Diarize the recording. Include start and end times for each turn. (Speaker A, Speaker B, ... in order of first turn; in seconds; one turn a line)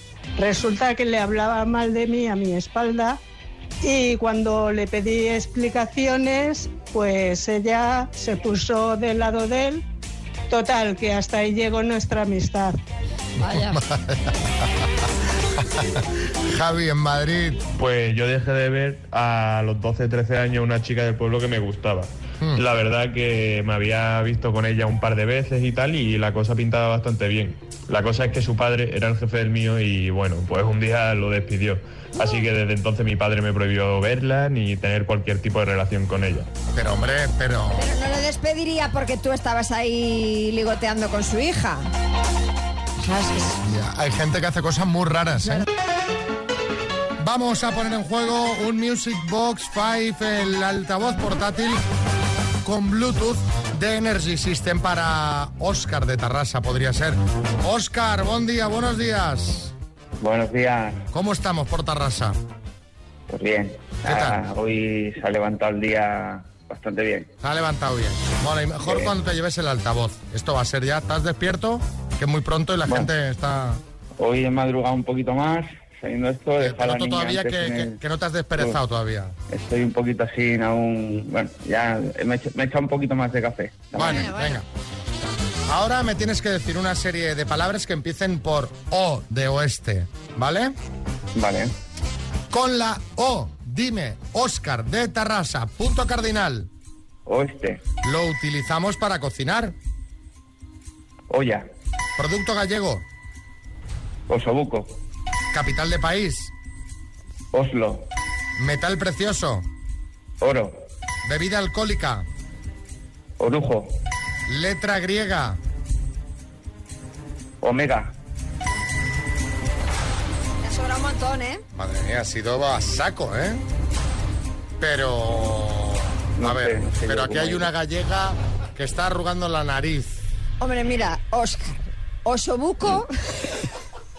Speaker A: 0.4-3.2
Speaker A: 3.8-9.8
Speaker A: 10.5-12.8
Speaker B: 13.4-14.4
Speaker C: 13.4-13.8
Speaker B: 15.6-17.7
Speaker D: 17.7-36.5
Speaker B: 36.7-37.9
Speaker C: 37.8-41.9
Speaker C: 43.0-43.6
Speaker B: 43.6-45.7
Speaker B: 47.2-51.8
Speaker B: 52.6-59.7
Speaker E: 60.2-61.0
Speaker B: 61.1-62.4
Speaker E: 63.3-67.3
Speaker B: 64.0-64.5
Speaker B: 67.4-73.8
Speaker E: 68.8-69.1
Speaker E: 74.2-78.0
Speaker B: 76.6-79.3
Speaker E: 79.5-84.3
Speaker B: 84.0-84.7
Speaker C: 84.0-84.6
Speaker B: 85.7-90.8
Speaker E: 91.3-91.7
Speaker B: 92.5-96.7
Speaker E: 97.3-97.8
Speaker B: 98.0-99.8
Speaker E: 101.3-101.7
Speaker B: 102.2-103.0
Speaker E: 104.3-105.0
Speaker B: 105.5-106.5
Speaker E: 107.5-108.1
Speaker B: 108.6-109.7
Speaker E: 110.4-110.8
Speaker B: 111.2-112.3
Speaker E: 113.4-114.0
Speaker B: 114.5-115.6
Speaker E: 117.6-118.1
Speaker C: 120.6-121.6
Speaker B: 121.7-123.6
Speaker B: 124.8-130.2
Speaker E: 126.4-127.7
Speaker C: 130.6-133.1